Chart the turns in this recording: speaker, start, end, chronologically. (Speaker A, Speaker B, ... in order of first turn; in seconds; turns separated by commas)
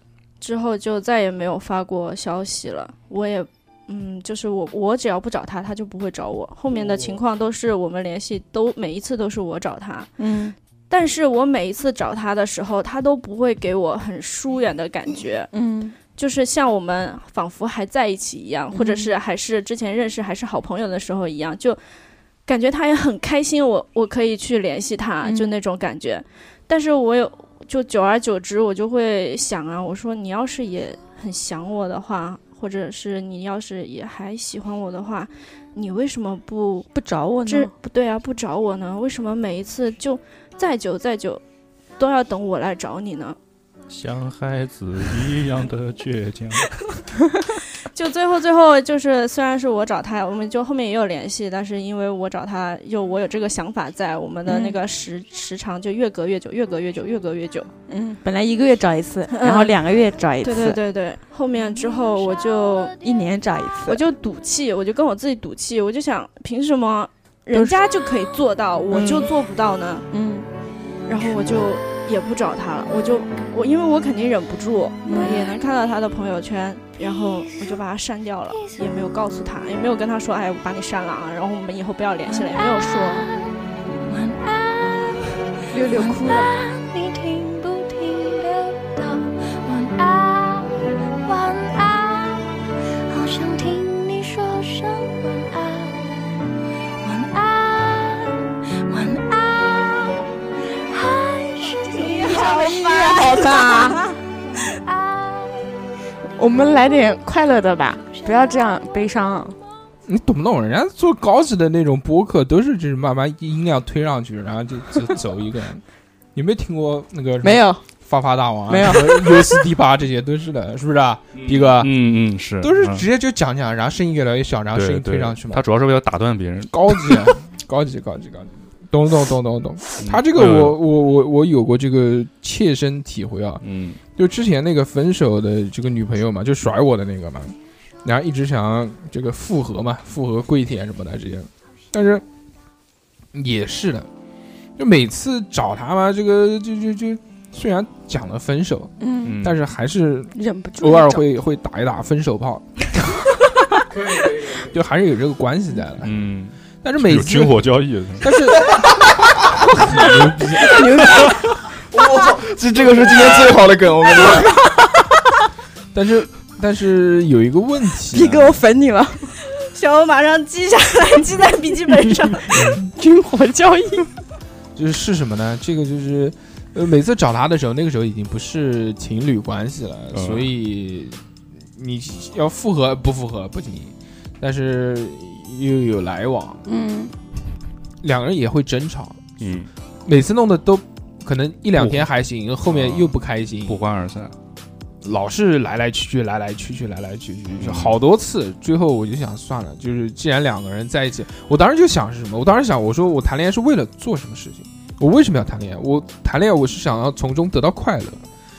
Speaker A: 0.4-10.1, Speaker B: 10.2-10.6, Speaker A: 10.9-15.5, Speaker B: 15.5-15.9, Speaker A: 16.1-21.8, Speaker B: 18.7-19.1, Speaker A: 22.5-36.9, Speaker B: 25.2-25.5, Speaker B: 36.9-37.7, Speaker A: 37.5-41.4, Speaker A: 42.0-43.4, Speaker C: 43.9-46.6, Speaker A: 47.9-57.7, Speaker B: 54.5-54.8, Speaker B: 57.9-60.8, Speaker A: 59.3-59.8, Speaker A: 60.4-63.0, Speaker B: 63.0-64.0, Speaker A: 63.9-70.1, Speaker B: 68.9-69.3, Speaker B: 70.1-70.5, Speaker A: 71.1-83.3, Speaker B: 75.0-75.5, Speaker D: 77.2-77.8, Speaker D: 78.5-78.9, Speaker D: 82.3-105.9, Speaker B: 85.7-86.6, Speaker A: 102.0-104.1, Speaker B: 102.3-104.0, Speaker B: 106.4-109.6, Speaker D: 108.0-108.8, Speaker E: 110.1-115.8, Speaker E: 116.3-121.9, Speaker B: 117.4-117.8, Speaker B: 118.7-119.6, Speaker C: 121.4-123.1, Speaker E: 122.6-125.6, Speaker C: 124.7-127.3, Speaker E: 126.7-142.2, Speaker C: 130.0-130.8, Speaker C: 133.6-134.0, Speaker E: 143.3-144.1, Speaker E: 144.8-152.9, Speaker B: 149.0-149.4, Speaker C: 149.2-149.6, Speaker B: 150.3-151.2, Speaker E: 154.6-156.2, Speaker C: 156.0-158.3, Speaker E: 156.8-157.6, Speaker E: 158.2-158.7, Speaker E: 159.7-160.9, Speaker B: 160.6-161.4, Speaker F: 161.9-164.6, Speaker E: 165.9-168.6, Speaker B: 168.1-169.3, Speaker A: 169.7-172.7, Speaker E: 172.5-172.8, Speaker B: 172.8-174.1, Speaker E: 174.8-181.2, Speaker C: 180.1-180.5, Speaker E: 181.8-186.7, Speaker B: 186.7-187.1, Speaker E: 188.0-189.2, Speaker C: 189.4-189.7, Speaker E: 190.1-193.8, Speaker C: 191.8-192.1, Speaker C: 192.7-193.1, Speaker C: 193.7-194.3, Speaker E: 195.0-208.2, Speaker C: 197.6-198.0